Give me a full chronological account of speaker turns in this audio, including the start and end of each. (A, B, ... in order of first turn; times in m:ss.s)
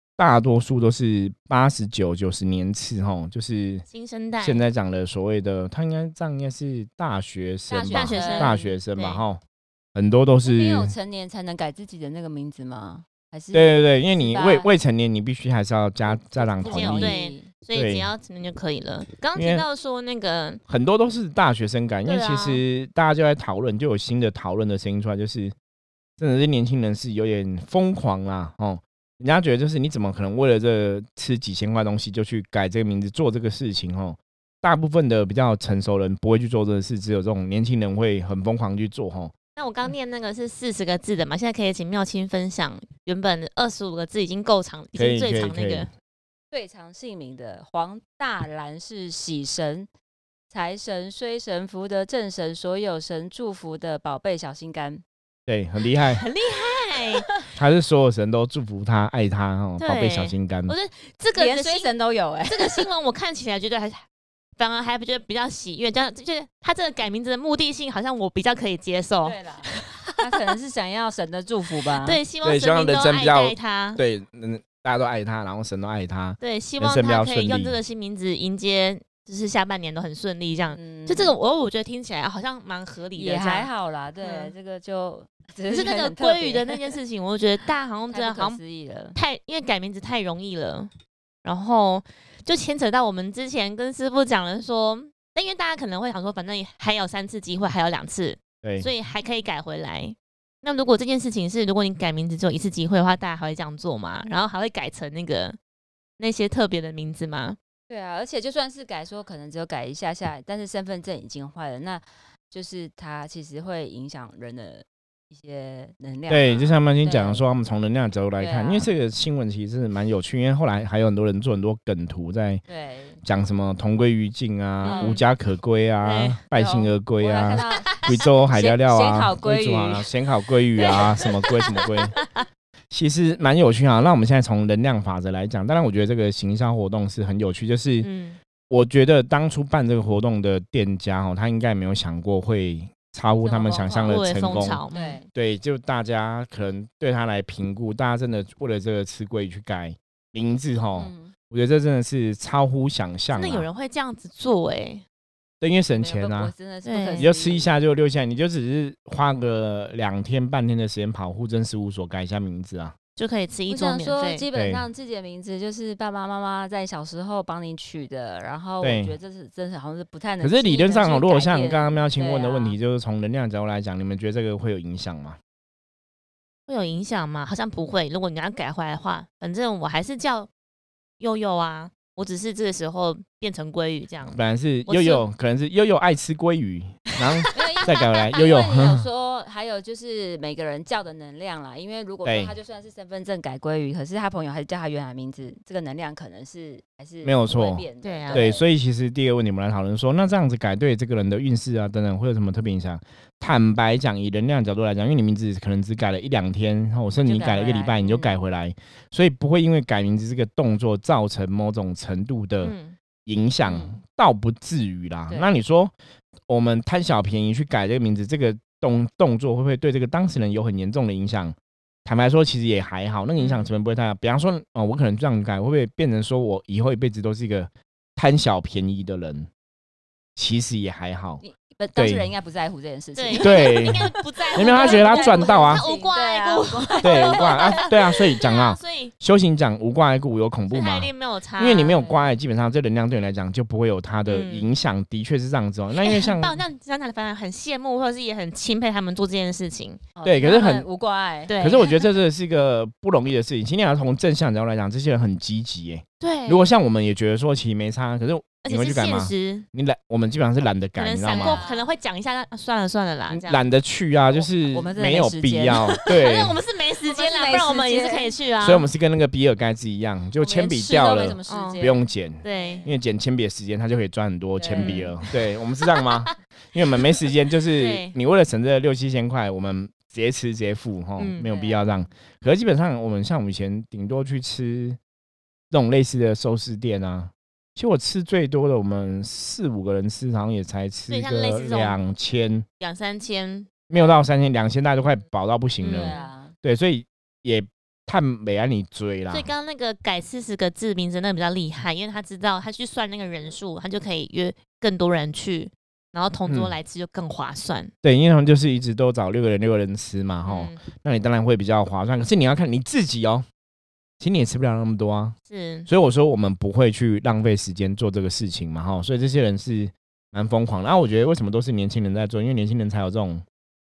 0:00.2-0:03.8 A
0:03.9-0:04.6 B
0:04.4-0:09.4 A
0:07.7-0:08.8 C
0:07.9-0:09.2 B
0:10.0-0:10.9 A
0:10.4-0:14.7 C
0:13.5-0:17.2 A
0:16.1-0:17.5 C
0:16.6-0:20.6 B
0:17.7-0:18.1 A
0:19.4-0:19.7 A
0:20.7-0:25.5 A
0:22.1-0:22.6 B
0:26.2-0:39.3 A
0:39.6-0:45.9 B
0:45.0-0:45.9 A
0:46.5-0:49.9 C
0:50.5-0:55.0 C
0:55.5-0:56.2 A
0:56.1-0:57.3 B
0:57.6-1:00.8 A
0:59.8-1:01.9 B
1:01.4-1:02.9 C
1:02.5-1:04.0 B
1:04.6-1:10.2 B
1:09.2-1:12.2 C
1:11.9-1:14.0 B
1:12.4-1:17.8 A
1:16.4-1:23.7 B
1:20.7-1:21.4 C
1:23.2-1:27.0 C
1:24.2-1:24.5 B
1:25.7-1:28.6 B
1:28.1-1:29.2 C
1:29.2-1:30.9 B
1:31.4-1:45.6 B
1:38.6-1:38.9 A
1:46.2-1:47.6 B
1:47.9-1:57.4 C
1:56.3-2:02.6 A
1:58.4-1:58.9 C
2:02.7-2:03.2 C
2:03.2-2:12.2 A
2:04.8-2:05.2 B
2:04.8-2:05.2 C
2:06.0-2:06.4 B
2:06.5-2:10.1 C
2:07.9-2:08.2 B
2:10.8-2:11.3 C
2:12.2-2:12.4 B
2:12.9-2:18.1 A
2:18.0-2:18.4 B
2:18.7-2:24.8 A
2:23.4-2:24.2 C
2:24.1-2:25.2 B
2:24.9-2:25.3 C
2:25.4-2:33.7 A
2:31.0-2:31.3 C
2:33.3-2:35.0 B
2:35.6-2:36.5 A
2:36.0-2:37.7 C
2:36.8-2:37.3 B
2:37.2-2:43.0 A
2:43.2-2:44.4 B
2:43.7-2:52.8 C
2:44.5-2:44.8 A
2:48.8-2:49.2 A
2:50.4-2:55.4 A
2:56.7-3:00.5 B
3:01.2-3:05.2 B
3:04.3-3:09.1 A
3:07.2-3:07.5 B
3:07.5-3:18.7 C
3:12.2-3:12.5 A
3:17.2-3:32.7 A
3:18.0-3:18.4 B
3:27.3-3:28.4 C
3:32.6-3:33.0 B
3:33.2-3:35.9 A
3:33.6-3:34.0 C
3:36.5-3:49.5 A
3:43.4-3:43.7 B
3:50.4-3:51.4 A
3:51.4-3:57.9 C
3:52.0-3:52.3 A
3:53.2-3:59.1 B
3:53.4-3:55.8 A
3:57.0-4:06.6 A
4:00.7-4:02.0 B
4:02.0-4:02.3 C
4:04.3-4:04.7 B
4:06.0-4:10.0 B
4:10.2-4:11.5 C
4:10.2-4:10.9 A
4:11.5-4:12.0 B
4:11.6-4:21.6 A
4:16.2-4:16.7 B
4:18.6-4:19.7 B
4:21.0-4:23.6 B
4:21.3-4:21.9 C
4:23.3-4:26.6 A
4:24.3-4:26.1 C
4:26.0-4:28.9 B
4:27.0-4:28.4 C
4:28.6-4:45.0 A
4:30.4-4:32.9 C
4:31.5-4:31.9 B
4:32.4-4:32.8 B
4:34.6-4:35.1 C
4:34.8-4:35.3 B
4:35.9-4:36.3 B
4:37.7-4:38.2 B
4:41.2-4:41.5 B
4:41.4-4:42.1 C
4:45.7-4:52.7 A
4:51.1-4:52.0 B
4:52.8-4:53.7 B
4:53.9-4:59.5 A
4:55.8-4:56.3 B
4:55.9-4:56.5 C
4:59.3-5:07.9 B
5:06.5-5:06.7 A
5:08.0-5:13.5 A
5:10.5-5:10.8 B
5:14.2-5:15.4 A
5:15.5-5:15.9 B
5:15.9-5:23.4 A